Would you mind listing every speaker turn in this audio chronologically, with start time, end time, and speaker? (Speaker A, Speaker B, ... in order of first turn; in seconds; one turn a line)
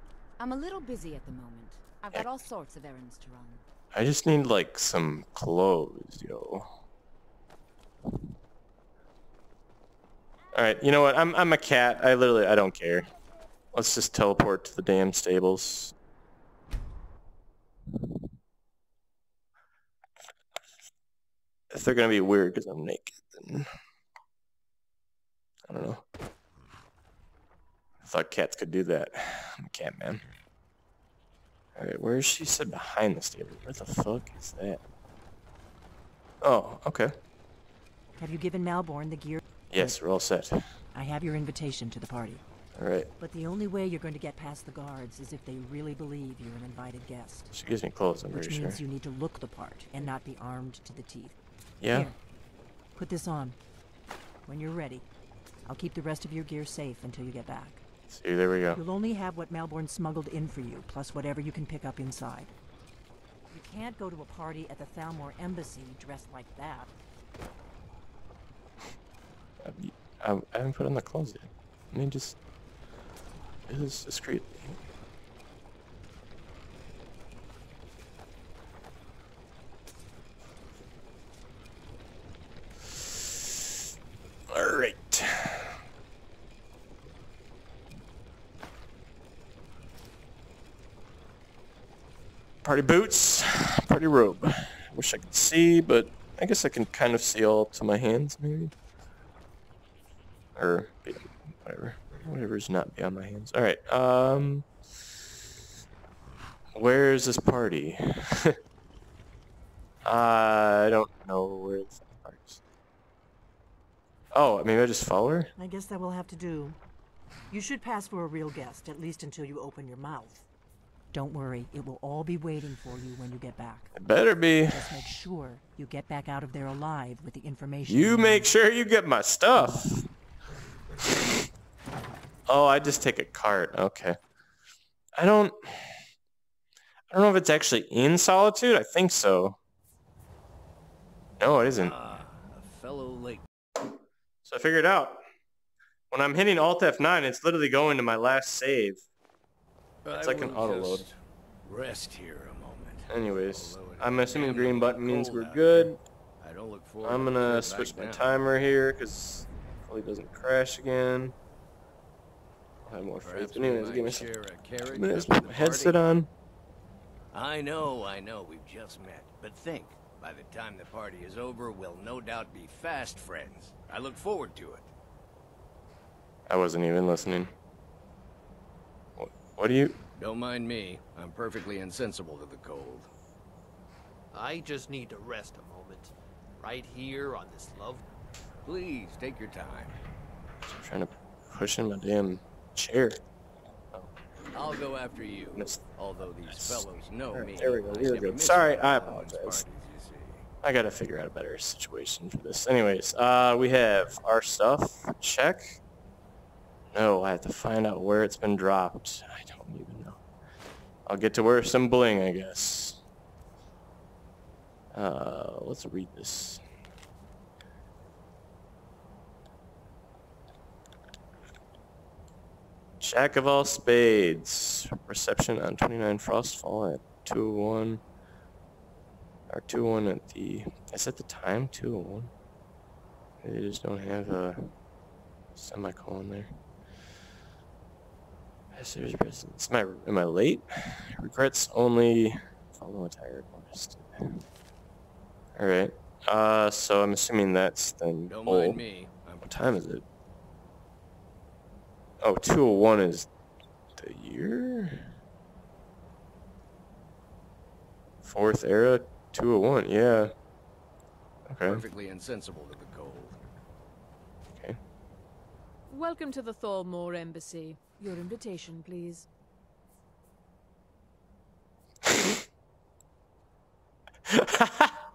Speaker A: 0.4-3.6
Speaker B: 3.9-6.7
Speaker B: 10.5-13.1
Speaker B: 13.7-15.9
Speaker B: 21.7-23.7
Speaker B: 25.7-26.0
Speaker B: 28.0-30.2
Speaker B: 31.7-34.8
Speaker B: 36.4-37.1
Speaker C: 38.2-40.0
Speaker B: 39.7-40.6
Speaker C: 40.9-42.4
Speaker B: 42.7-43.1
Speaker C: 43.2-47.5
Speaker B: 47.5-48.8
Speaker C: 48.3-51.4
Speaker B: 51.8-52.1
Speaker C: 53.0-53.6
Speaker C: 54.5-55.0
Speaker C: 55.6-57.8
Speaker B: 58.1-58.8
Speaker C: 58.7-62.5
Speaker C: 63.5-66.9
Speaker B: 69.6-72.4
Speaker B: 73.7-74.8
Speaker B: 84.5-85.7
Speaker B: 92.6-98.7
Speaker B: 100.5-104.7
Speaker B: 106.7-108.6
Speaker B: 110.0-112.6
Speaker B: 114.3-115.5
Speaker C: 115.6-116.8
Speaker C: 117.5-120.5
Speaker C: 121.1-123.9
Speaker B: 123.9-125.0
Speaker C: 124.7-128.5
Speaker B: 127.8-130.1
Speaker B: 131.0-131.4
Speaker B: 132.5-134.2
Speaker B: 135.2-136.0
Speaker B: 137.1-139.6
Speaker B: 141.4-141.9
Speaker D: 141.7-143.4
Speaker B: 144.4-145.2
Speaker B: 146.1-149.0
Speaker D: 150.0-151.1
Speaker B: 150.1-151.1
Speaker D: 151.6-158.3
Speaker B: 153.1-156.0
Speaker B: 157.0-161.3
Speaker B: 162.9-166.3
Speaker D: 163.2-166.0
Speaker D: 167.3-174.9
Speaker B: 176.5-177.5
Speaker B: 179.2-180.0
Speaker D: 180.2-183.1
Speaker E: 184.3-185.5
Speaker E: 186.6-188.0
Speaker D: 188.6-190.0
Speaker B: 190.6-193.2
Speaker D: 194.5-200.2
Speaker B: 195.5-195.9
Speaker B: 196.4-199.6
Speaker B: 200.6-205.8
Speaker B: 206.9-210.2
Speaker B: 211.1-213.0
Speaker B: 214.9-216.6
Speaker B: 223.0-228.0
Speaker B: 229.5-232.3
Speaker B: 233.4-234.7
Speaker B: 235.6-236.5
Speaker B: 238.7-244.4
Speaker B: 245.5-248.8
Speaker D: 248.3-249.6
Speaker B: 249.4-250.0
Speaker B: 252.2-253.3
Speaker B: 254.0-255.1
Speaker B: 258.2-260.3
Speaker B: 261.5-261.8
Speaker D: 261.6-263.5
Speaker B: 264.5-264.8
Speaker F: 265.9-269.3
Speaker B: 272.1-272.4
Speaker B: 274.3-275.0